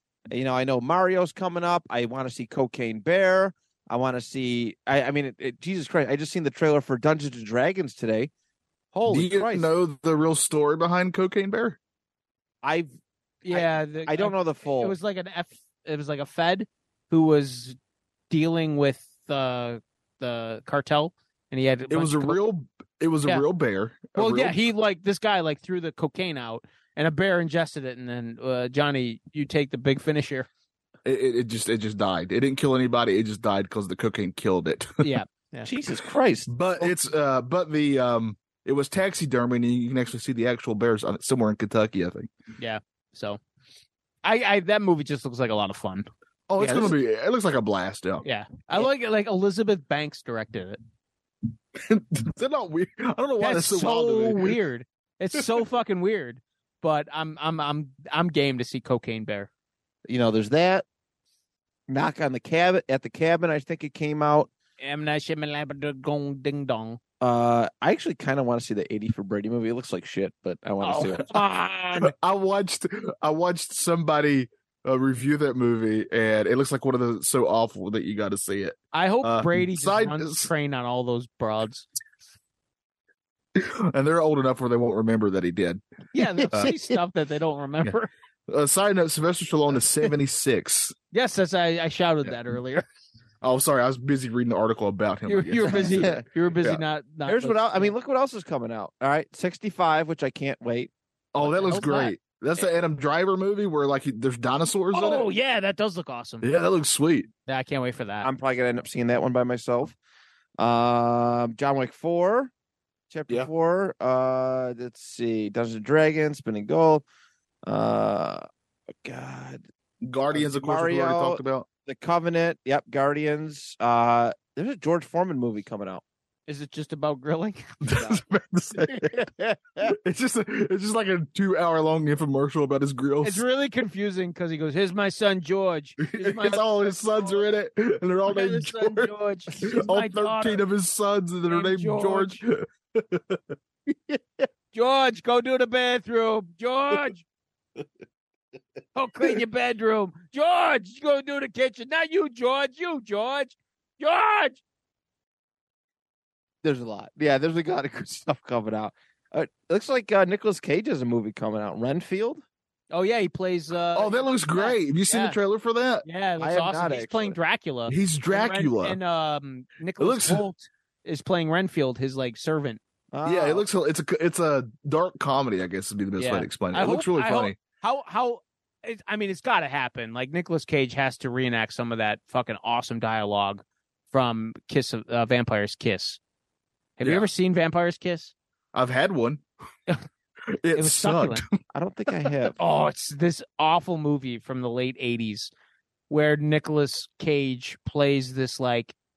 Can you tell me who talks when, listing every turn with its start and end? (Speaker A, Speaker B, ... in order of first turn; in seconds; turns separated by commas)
Speaker A: 0.3-8.3, Speaker A: 8.9-9.7, Speaker B: 9.1-11.8, Speaker A: 12.6-12.9, Speaker C: 13.4-17.8, Speaker A: 13.5-14.9, Speaker C: 18.3-22.4, Speaker B: 21.9-24.6, Speaker C: 24.2-30.5, Speaker B: 31.1-35.1, Speaker C: 35.0-35.7, Speaker A: 35.6-36.9, Speaker B: 36.5-42.3, Speaker C: 42.6-43.4, Speaker C: 44.2-46.1, Speaker B: 46.5-48.2, Speaker C: 46.6-46.9, Speaker C: 48.2-50.8, Speaker B: 51.8-54.6, Speaker C: 53.4-59.5, Speaker A: 60.1-60.9, Speaker A: 61.9-64.5, Speaker C: 64.8-67.0, Speaker A: 67.2-71.3, Speaker C: 70.8-72.1, Speaker B: 72.0-80.5, Speaker C: 78.9-81.9, Speaker B: 83.5-85.8, Speaker C: 86.1-88.1, Speaker A: 86.4-86.7, Speaker B: 88.5-91.0, Speaker C: 91.1-92.8, Speaker B: 93.4-96.8, Speaker C: 95.3-97.9, Speaker A: 95.7-96.3, Speaker A: 97.3-100.9, Speaker B: 101.3-105.3, Speaker C: 101.4-102.1, Speaker C: 104.9-106.5, Speaker B: 106.4-107.3, Speaker C: 107.5-108.3, Speaker A: 108.2-110.0, Speaker A: 110.6-112.5, Speaker A: 113.1-117.0, Speaker A: 117.7-118.5, Speaker A: 119.0-119.7, Speaker B: 120.0-121.7, Speaker A: 120.3-126.0, Speaker C: 126.5-128.2, Speaker B: 127.8-129.3, Speaker A: 128.8-130.0, Speaker B: 129.9-133.4, Speaker C: 133.2-136.6, Speaker B: 136.0-143.4, Speaker C: 138.3-140.6, Speaker C: 141.5-142.4, Speaker C: 144.7-147.2, Speaker C: 148.9-154.6, Speaker A: 156.6-162.4, Speaker C: 162.9-165.4, Speaker B: 163.9-166.1, Speaker C: 166.0-172.8, Speaker A: 166.4-167.4, Speaker B: 167.9-169.0, Speaker B: 170.0-170.4, Speaker A: 173.1-173.7, Speaker B: 173.2-177.6, Speaker C: 176.2-186.2, Speaker C: 187.0-188.3, Speaker B: 187.0-187.3, Speaker B: 188.7-189.4, Speaker B: 190.6-191.6, Speaker C: 190.8-191.4, Speaker A: 191.7-192.6, Speaker C: 192.6-195.5, Speaker C: 196.1-198.9